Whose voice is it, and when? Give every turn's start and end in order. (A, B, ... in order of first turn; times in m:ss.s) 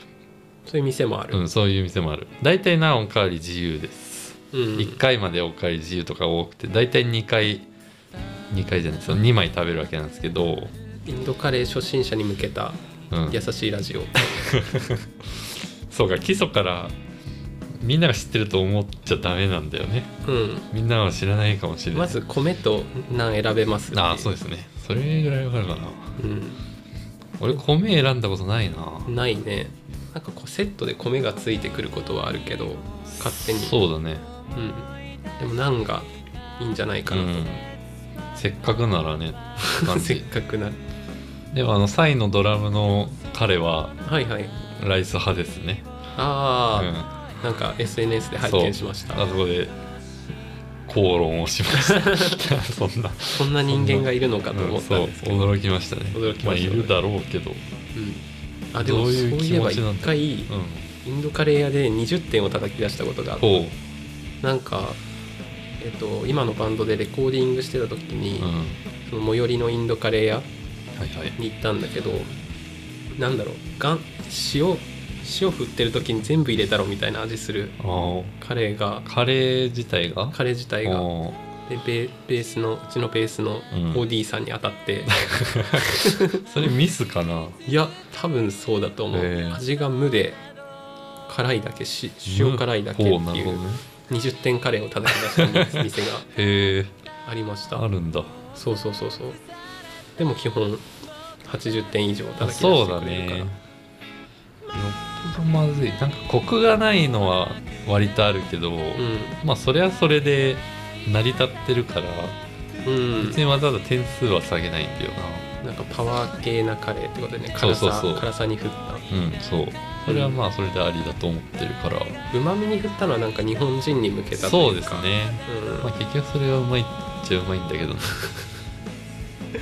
0:00.7-0:01.4 A
0:01.3-0:07.7 B
0:04.5-0:05.0 A
0:08.5-0:10.7 B
0:11.1-0:14.3 A
0:13.1-0:13.4 B
0:14.4-0:15.1 B
0:15.9-0:17.0 B
0:17.8-0:20.1 B
0:20.2-0:20.7 A
0:20.7-0:22.2 B
0:21.9-0:24.4 A
0:23.9-0:26.2 B
0:26.2-0:26.6 A
0:27.4-0:29.1 B
0:29.1-0:33.8 A
0:33.1-0:34.3 B
0:34.5-0:37.5 A
0:37.1-0:37.6 B
0:38.3-0:40.3 B
0:39.6-0:40.8 A
0:41.5-0:44.0 B
0:44.0-0:44.5 A
0:44.6-0:45.8 B
0:46.2-0:49.2 A
0:46.7-0:47.1 B
0:48.4-0:49.8 B
0:50.9-0:57.6 B
0:53.3-0:55.5 A
0:56.1-0:57.0 A
0:58.0-1:00.5 A
0:58.8-1:00.9 B
1:01.0-1:03.5 A
1:03.4-1:03.8 B
1:04.4-1:05.0 A
1:05.8-1:08.5 A
1:08.4-1:08.8 B
1:09.1-1:10.5 A
1:11.0-1:11.4 B
1:11.4-1:12.3 A
1:13.2-1:17.8 A
1:17.8-1:18.4 B
1:18.4-1:19.1 A
1:19.0-1:21.4 B
1:20.3-1:21.1 A
1:21.7-1:25.2 A
1:23.7-1:24.0 B
1:25.3-1:27.6 B
1:26.0-1:26.4 A
1:27.6-1:30.4 A
1:29.1-1:29.6 B
1:31.3-1:36.3 A
1:32.3-1:33.8 B
1:35.7-1:36.9 B
1:37.3-1:37.8 A
1:37.7-1:38.4 B
1:38.6-1:39.4 A
1:40.2-1:40.9 A
1:41.4-1:43.5 A
1:42.4-1:43.6 B
1:44.7-1:52.4 B
1:49.0-1:49.4 A
1:52.8-1:53.4 A
1:53.2-1:55.5 B
1:55.6-1:59.0 A
1:57.6-1:58.3 B
1:59.1-2:02.2 B
2:00.1-2:00.4 A
2:02.3-2:05.9 A
2:04.4-2:08.2 B